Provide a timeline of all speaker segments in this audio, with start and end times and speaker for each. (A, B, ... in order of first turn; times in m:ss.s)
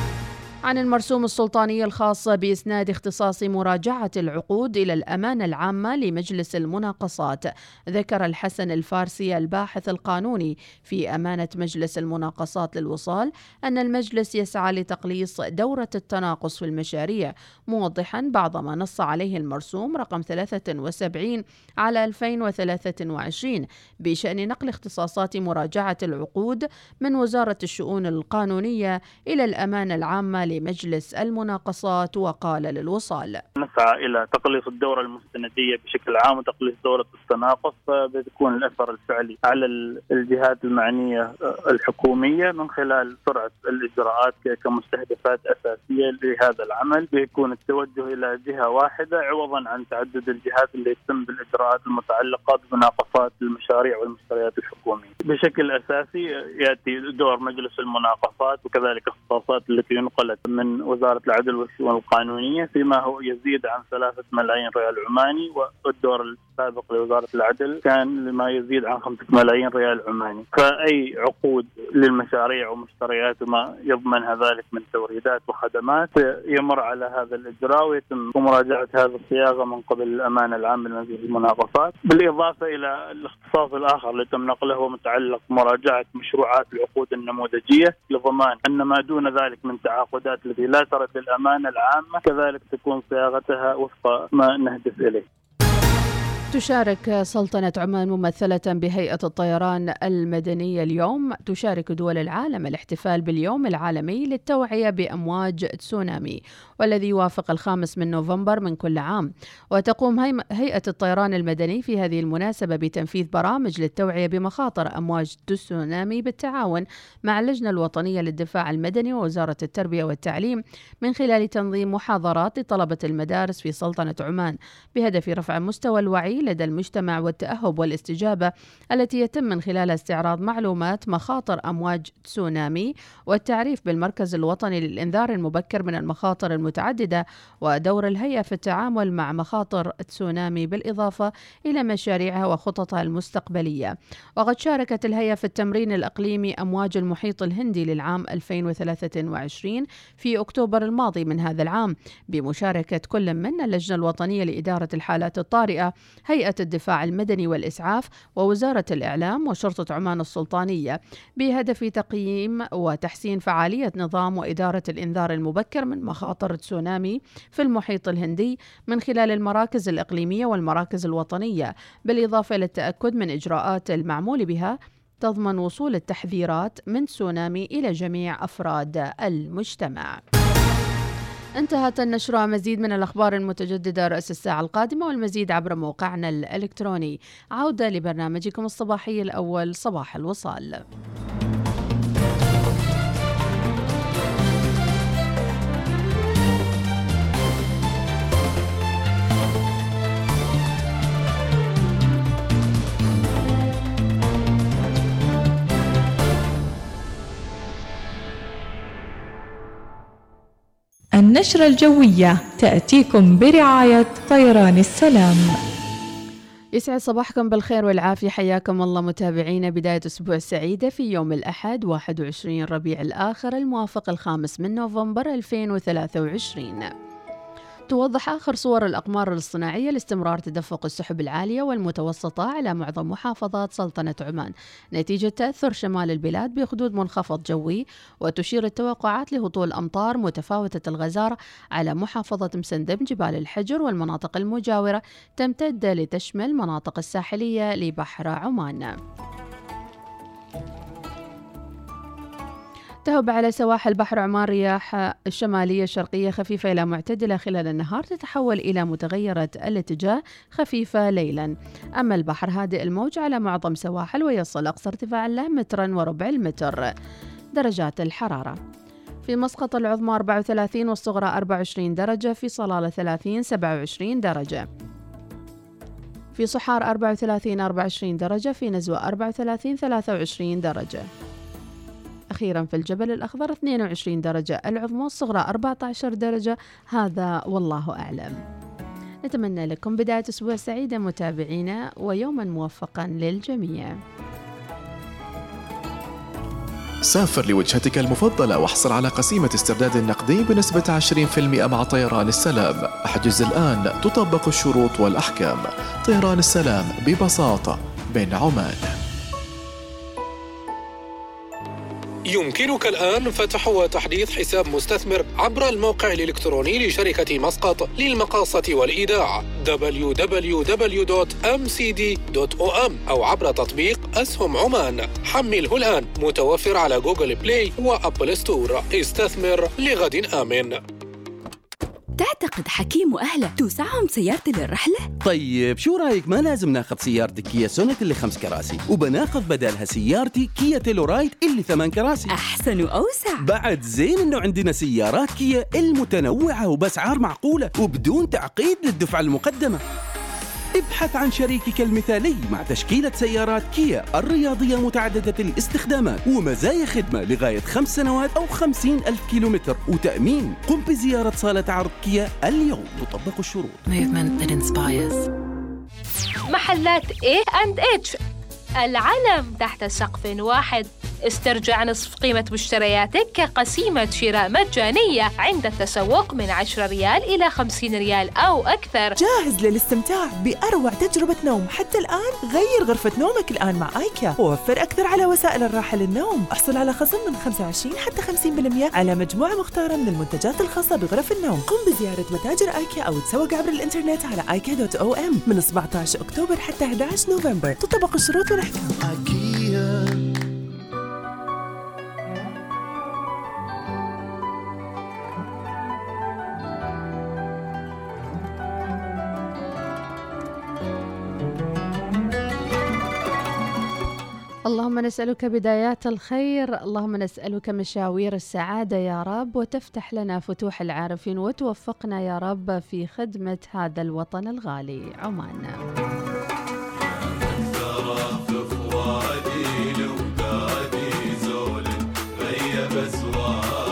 0:00.6-0:33.4 A
0:33.6-1:35.2 B
1:36.5-3:00.2 A
3:01.6-3:10.8 A
3:31.2-3:35.6 C
3:36.8-3:46.9 A
3:47.9-4:09.0 A
4:13.0-4:26.9 A
4:27.5-4:28.6 A
4:29.2-4:34.6 A
4:36.4-4:41.1 A
4:42.3-4:48.4 A
4:49.2-4:54.0 A
4:57.0-5:08.9 D
5:12.3-5:30.8 E
5:32.2-5:35.1 F
5:35.2-5:42.3 G
5:42.3-5:43.4 F
5:43.4-5:49.8 G
5:50.8-6:03.8 G
6:03.8-6:05.2 H
6:06.5-6:08.2 I
6:08.8-6:19.1 I
6:19.2-6:38.9 J
6:39.0-6:40.2 H
6:54.7-7:05.8 A